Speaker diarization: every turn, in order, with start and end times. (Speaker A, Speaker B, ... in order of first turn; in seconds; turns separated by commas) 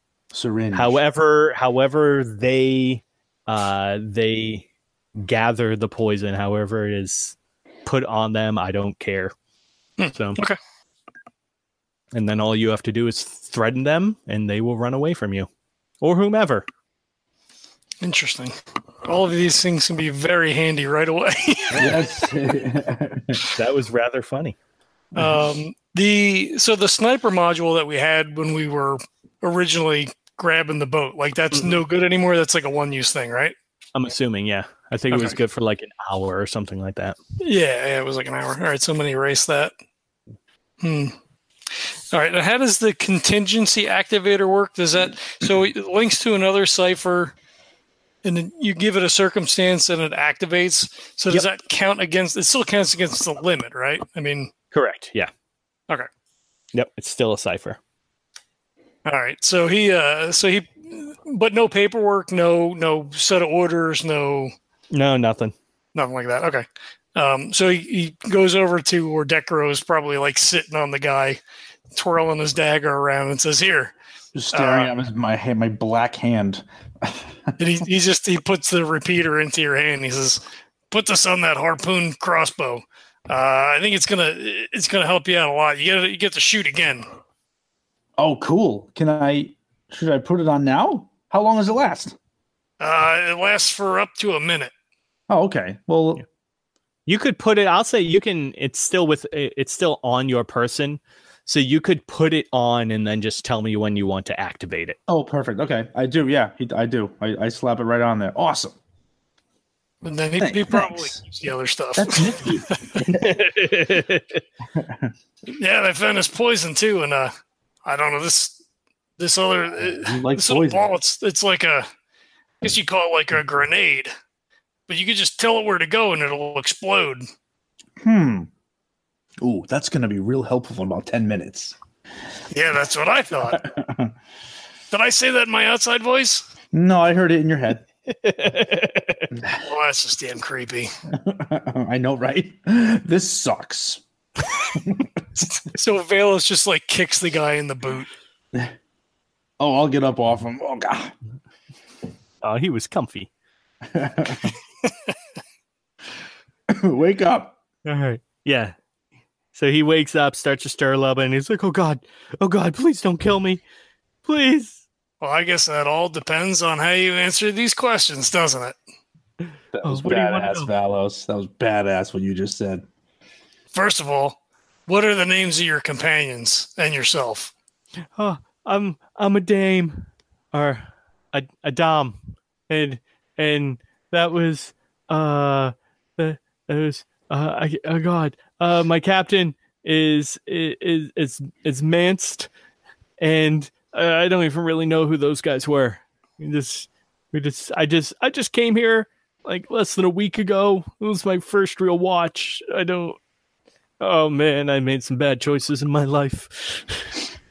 Speaker A: 0.3-1.0, Speaker B: 0.7-4.7, Speaker B: 5.2-9.3, Speaker C: 10.0-10.6, Speaker B: 12.1-15.5, Speaker B: 16.0-16.6, Speaker C: 18.0-22.0, Speaker A: 21.7-23.4, Speaker B: 23.5-24.6, Speaker C: 25.1-33.5, Speaker B: 33.9-37.2, Speaker C: 35.1-35.4, Speaker C: 37.4-39.7, Speaker C: 40.8-41.1, Speaker C: 42.1-47.3, Speaker C: 48.2-54.5, Speaker B: 54.7-55.3, Speaker B: 56.7-57.8, Speaker C: 59.0-64.5, Speaker B: 64.9-65.5, Speaker C: 65.9-66.6, Speaker C: 67.2-71.4, Speaker C: 71.9-73.9, Speaker A: 74.3-77.6, Speaker C: 74.5-74.9, Speaker C: 77.6-87.1, Speaker A: 88.2-92.2, Speaker C: 92.8-94.7, Speaker A: 95.3-96.2, Speaker B: 97.1-105.0, Speaker A: 105.1-108.8, Speaker C: 110.0-112.8, Speaker A: 110.4-111.2, Speaker A: 112.0-113.3, Speaker B: 113.1-114.4, Speaker A: 114.7-115.1, Speaker C: 115.5-117.3, Speaker C: 117.8-118.6, Speaker C: 119.2-121.9, Speaker A: 119.8-120.9, Speaker C: 122.6-124.1, Speaker C: 124.9-127.2, Speaker A: 128.0-128.5, Speaker A: 129.4-131.7, Speaker C: 132.5-133.6, Speaker A: 133.5-134.1, Speaker C: 134.9-136.4, Speaker A: 136.7-137.8, Speaker B: 138.1-139.3, Speaker C: 139.6-140.9, Speaker A: 141.1-144.0, Speaker A: 144.7-145.1, Speaker C: 145.6-148.1, Speaker A: 149.6-151.1, Speaker B: 152.4-153.3, Speaker A: 153.9-154.5, Speaker A: 156.7-157.6, Speaker B: 157.8-158.7, Speaker B: 159.5-163.6, Speaker B: 164.2-164.8, Speaker C: 165.2-168.8, Speaker A: 169.7-172.8, Speaker B: 169.8-170.7, Speaker C: 173.7-177.5, Speaker B: 178.2-182.2, Speaker B: 182.7-192.5, Speaker B: 193.2-203.2, Speaker B: 204.0-207.1